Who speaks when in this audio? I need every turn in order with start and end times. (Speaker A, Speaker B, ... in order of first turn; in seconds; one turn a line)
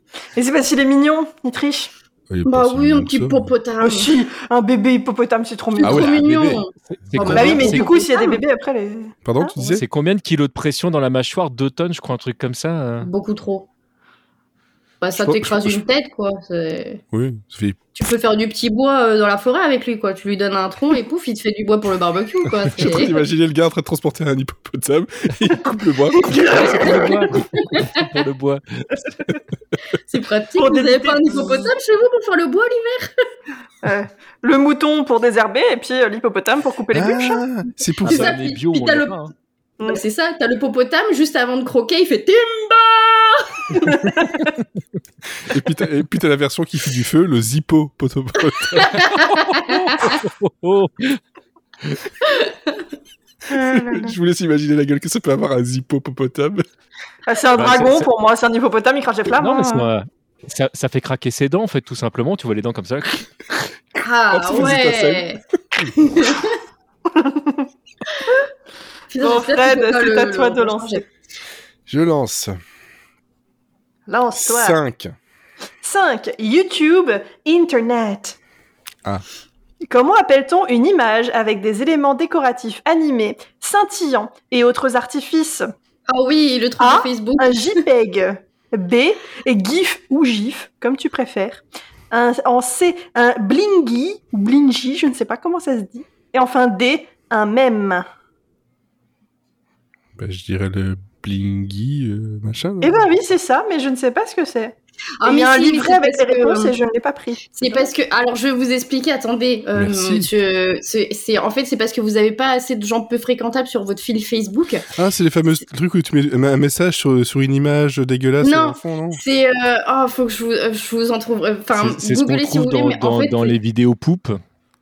Speaker A: 0.3-1.9
Speaker B: 2.3-3.5
Speaker C: 2.5-4.2
Speaker A: 3.8-6.2
Speaker C: 5.8-8.4
Speaker B: 5.8-6.6
Speaker D: 7.0-7.9
Speaker A: 7.2-9.8
Speaker B: 9.2-9.8
Speaker D: 9.7-13.1
Speaker C: 13.0-13.7
Speaker C: 15.0-17.0
Speaker B: 15.2-15.8
Speaker B: 17.1-17.8
Speaker C: 17.9-23.2
Speaker B: 22.7-26.7
Speaker A: 26.3-27.3
Speaker D: 26.5-29.4
Speaker C: 27.6-27.9
Speaker C: 30.1-33.1
Speaker A: 30.6-31.7
Speaker A: 33.8-37.4
Speaker B: 36.9-38.3
Speaker D: 38.0-39.3
Speaker C: 38.0-39.2
Speaker C: 39.8-43.8
Speaker A: 43.8-44.2
Speaker B: 45.5-49.0
Speaker C: 48.8-50.1
Speaker D: 48.9-51.2
Speaker C: 52.3-52.8
Speaker A: 53.5-54.1
Speaker B: 53.5-56.6
Speaker A: 57.3-59.9
Speaker D: 57.5-58.1
Speaker D: 59.4-63.2
Speaker C: 64.0-65.4
Speaker B: 64.3-65.3
Speaker C: 66.0-66.6
Speaker A: 67.1-67.7
Speaker C: 69.1-71.1
Speaker A: 69.2-71.0
Speaker B: 71.9-72.6
Speaker A: 74.1-74.8
Speaker B: 74.4-75.2
Speaker A: 75.8-78.4
Speaker A: 79.8-85.7
Speaker C: 86.1-87.8
Speaker A: 86.8-98.1
Speaker B: 100.2-103.0
Speaker A: 102.8-107.9
Speaker C: 105.2-106.8
Speaker C: 107.6-114.9
Speaker B: 109.8-110.3
Speaker B: 114.9-119.2
Speaker C: 118.4-123.5
Speaker D: 121.8-124.4